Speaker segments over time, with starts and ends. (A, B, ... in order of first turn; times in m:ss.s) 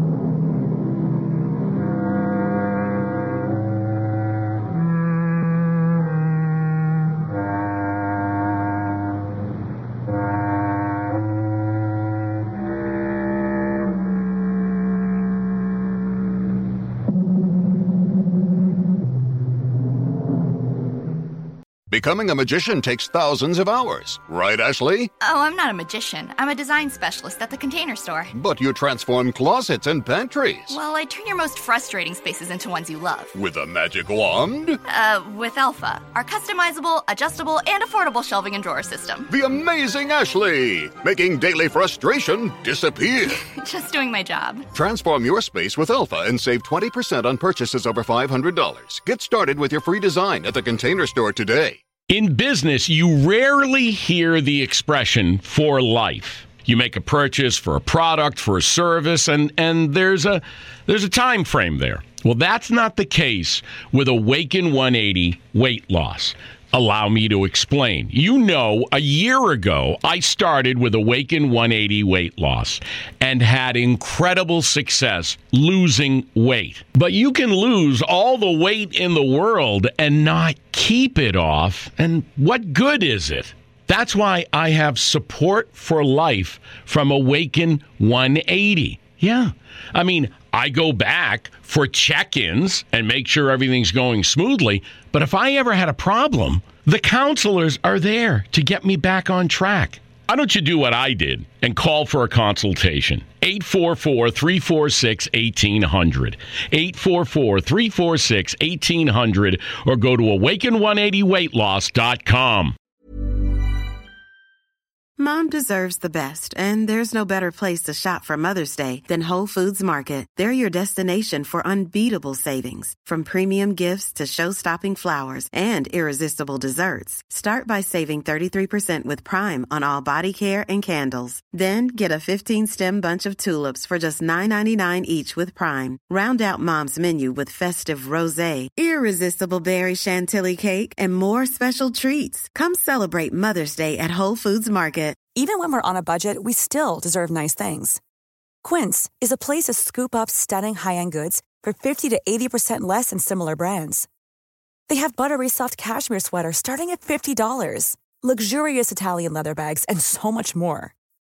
0:21.9-0:25.1 A
0:25.2-0:28.3 B
0:28.3-0:30.8 A
0:30.7-0:33.4 B
0:33.3-0:34.8 A
0:34.9-0:39.3 B
0:39.3-0:43.4 A
0:43.3-0:44.6 B
0:44.7-0:51.8 A
0:52.1-1:52.7 C
1:55.2-2:25.3 D
2:25.4-2:28.0 E
2:28.6-2:34.0 E
2:34.9-2:40.9 E